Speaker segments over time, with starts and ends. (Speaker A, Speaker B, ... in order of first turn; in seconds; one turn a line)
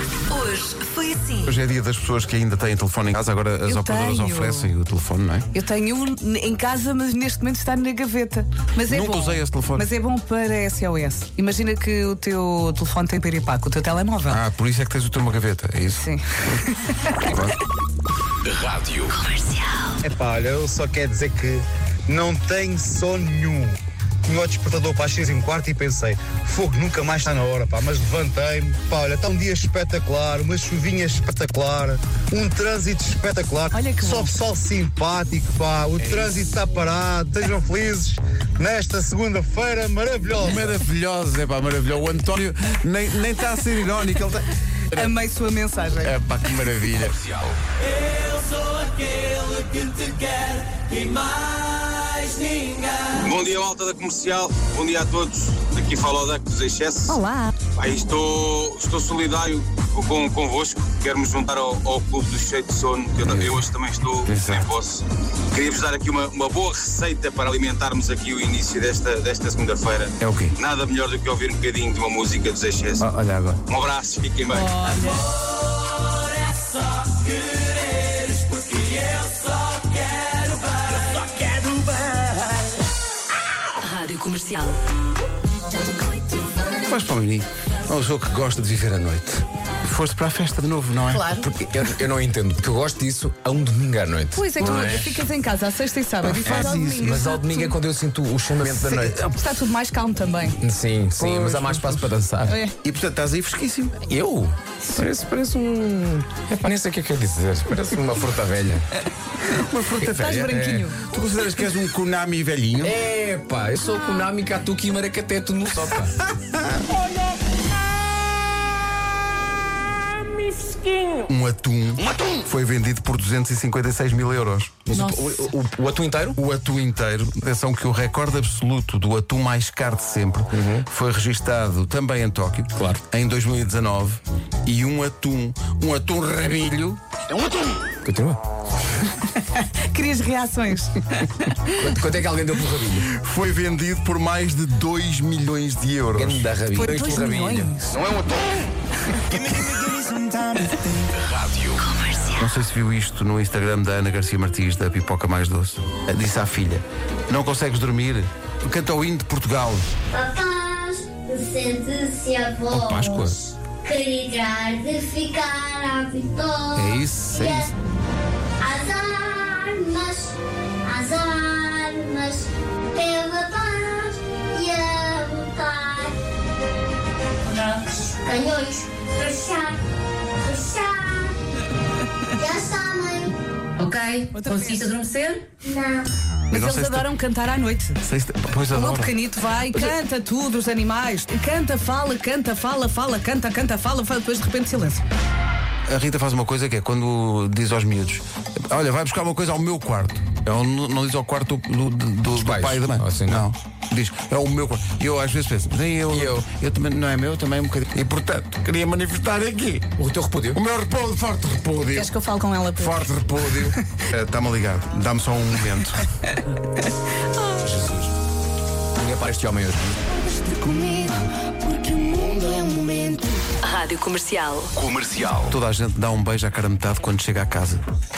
Speaker A: 0.3-1.5
Speaker B: 1.4-5.5
Speaker C: 3.6-4.7
Speaker C: 5.5-14.4
Speaker B: 8.8-9.9
Speaker B: 14.3-16.1
Speaker C: 15.9-17.3
Speaker B: 17.2-17.6
Speaker A: 19.1-19.7
Speaker D: 20.0-40.8
Speaker C: 33.7-34.3
Speaker B: 36.0-36.5
Speaker B: 40.4-45.1
Speaker C: 44.9-46.6
Speaker B: 46.0-47.4
Speaker E: 52.5-57.2
Speaker C: 57.1-57.5
Speaker E: 57.7-73.0
Speaker B: 63.2-63.6
Speaker B: 64.2-64.7
Speaker B: 70.2-70.6
Speaker B: 73.0-73.6
Speaker E: 73.7-75.2
Speaker C: 74.5-75.2
Speaker A: 83.8-84.8
Speaker B: 86.8-91.8
Speaker C: 91.2-91.5
Speaker F: 91.7-95.1
Speaker C: 94.3-97.8
Speaker B: 94.6-95.1
Speaker B: 96.3-97.0
Speaker F: 96.4-99.2
Speaker C: 98.9-100.6
Speaker F: 100.6-102.6
Speaker B: 101.2-102.1
Speaker C: 102.5-102.7
Speaker B: 102.8-104.0
Speaker F: 104.0-108.8
Speaker B: 109.5-113.0
Speaker C: 110.0-111.0
Speaker F: 110.5-110.8
Speaker F: 112.8-116.2
Speaker B: 116.4-116.8
Speaker B: 121.2-124.7
Speaker F: 124.9-126.4
Speaker C: 124.9-125.5
Speaker B: 126.3-137.0
Speaker F: 130.5-130.8
Speaker F: 138.0-138.4
Speaker C: 139.2-141.7
Speaker F: 141.8-143.1
Speaker B: 143.1-146.5
Speaker F: 146.1-147.7
Speaker C: 146.7-148.0
Speaker A: 151.8-152.3
Speaker B: 152.3-159.9
Speaker G: 160.1-167.7
Speaker F: 162.7-163.4
Speaker B: 166.7-167.7
Speaker G: 168.6-176.2
Speaker G: 177.4-179.8
Speaker G: 180.4-181.3
Speaker G: 182.4-183.4
Speaker C: 184.3-185.0
Speaker G: 185.6-186.1
Speaker B: 186.5-187.1
Speaker C: 186.5-188.0
Speaker B: 188.0-189.1
Speaker C: 188.7-195.0
Speaker B: 195.8-209.9
Speaker F: 202.3-203.4
Speaker F: 206.1-206.4
Speaker F: 210.0-210.6
Speaker B: 210.5-212.1
Speaker C: 211.9-213.1
Speaker B: 212.7-216.0
Speaker F: 217.6-218.1
Speaker F: 219.0-220.0
Speaker C: 220.2-223.4
Speaker A: 223.6-224.7
Speaker F: 225.0-225.4
Speaker B: 225.4-227.8